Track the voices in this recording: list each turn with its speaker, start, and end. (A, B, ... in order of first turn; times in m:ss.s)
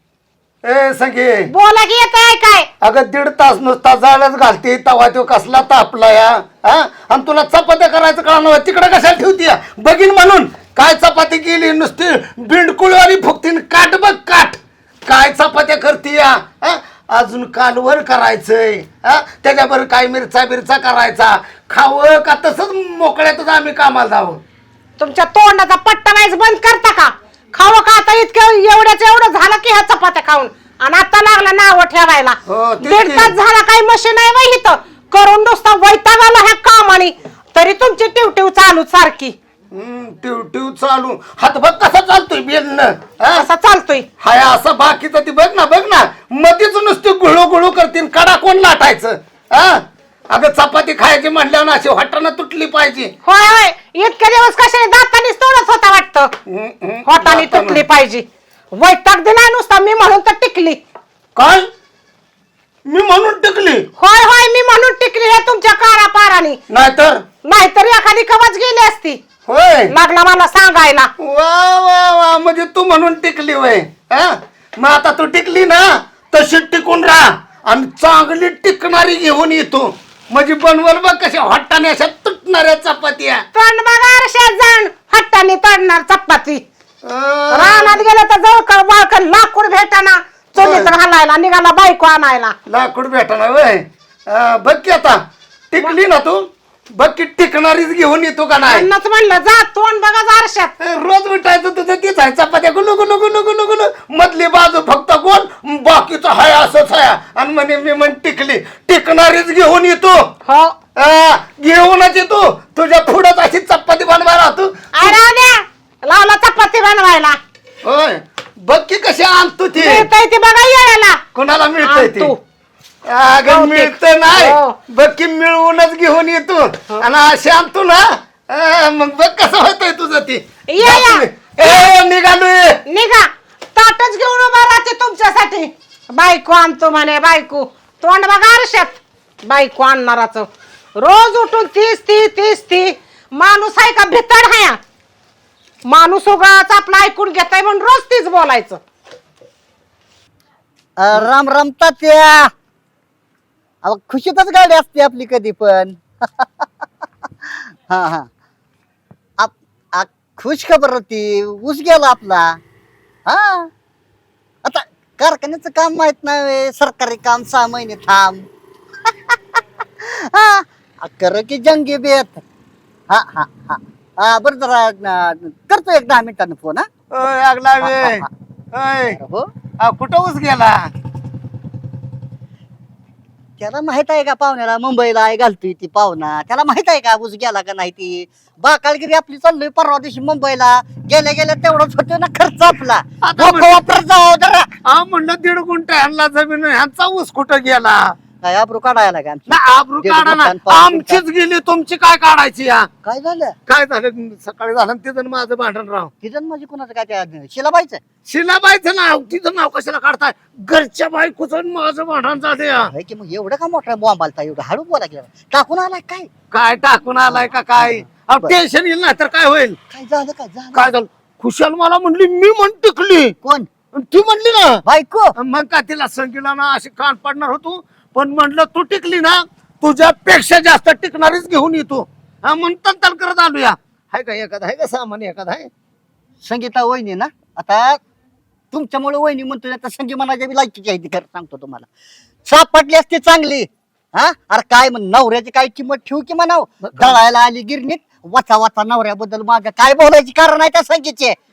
0:00.6-0:01.5 A
0:01.5-0:02.7 B
0:02.8-0:24.4 A
0:25.0-0:39.3 B
0:32.5-0:33.3 A
0:39.7-0:43.4 A
0:43.3-0:44.1 B
0:44.2-0:53.1 A
0:53.2-0:56.3 B
0:56.5-0:57.8 A
0:57.0-1:00.8 B
1:01.4-1:01.7 A
1:02.8-1:03.9 A
1:04.0-1:06.6 B
1:06.7-1:07.2 A
1:07.4-1:09.2 B
1:09.5-1:09.9 A
1:09.9-1:11.1 B
1:11.2-1:23.4 A
1:23.5-1:26.6 B
1:27.0-1:28.0 A
1:27.5-1:32.5 B
1:30.6-1:30.9 A
1:32.7-1:35.2 A
1:35.7-1:38.9 A
1:38.6-1:40.7 B
1:40.8-1:50.3 A
1:50.4-1:50.8 B
1:51.0-1:55.1 A
1:54.9-1:57.4 B
1:57.8-2:00.1 A
1:59.7-2:01.2 B
2:01.3-2:02.3 A
2:01.8-2:02.4 B
2:03.0-2:12.8 A
2:03.4-2:04.8 B
2:10.7-2:11.9 B
2:12.9-2:24.8 B
2:25.9-2:28.8 B
2:31.0-2:32.5 C
2:33.8-2:38.3 C
2:39.4-2:42.6 C
2:43.2-2:43.7 C
2:44.6-2:48.5 C
2:49.0-2:52.4 C
2:53.1-2:56.9 C
2:57.1-2:59.2 A
2:57.8-2:58.3 C
2:59.1-2:59.5 C
2:59.8-3:00.9 A
3:03.6-3:14.7 C
3:13.2-3:13.8 A
3:14.8-3:18.2 A
3:18.4-3:21.2 C
3:19.5-3:22.9 A
3:23.0-3:23.6 C
3:23.7-3:26.1 A
3:26.2-3:28.0 C
3:28.2-3:32.9 A
3:32.9-3:36.3 C
3:36.5-3:39.8 A
3:37.3-3:38.5 C
3:39.9-3:40.9 C
3:40.7-3:43.3 A
3:43.4-3:43.7 C
3:43.9-3:44.8 A
3:44.8-3:45.3 C
3:45.4-3:55.7 A
3:56.4-3:58.0 C
3:58.7-4:01.9 C
4:02.4-4:11.4 C
4:06.8-4:07.2 A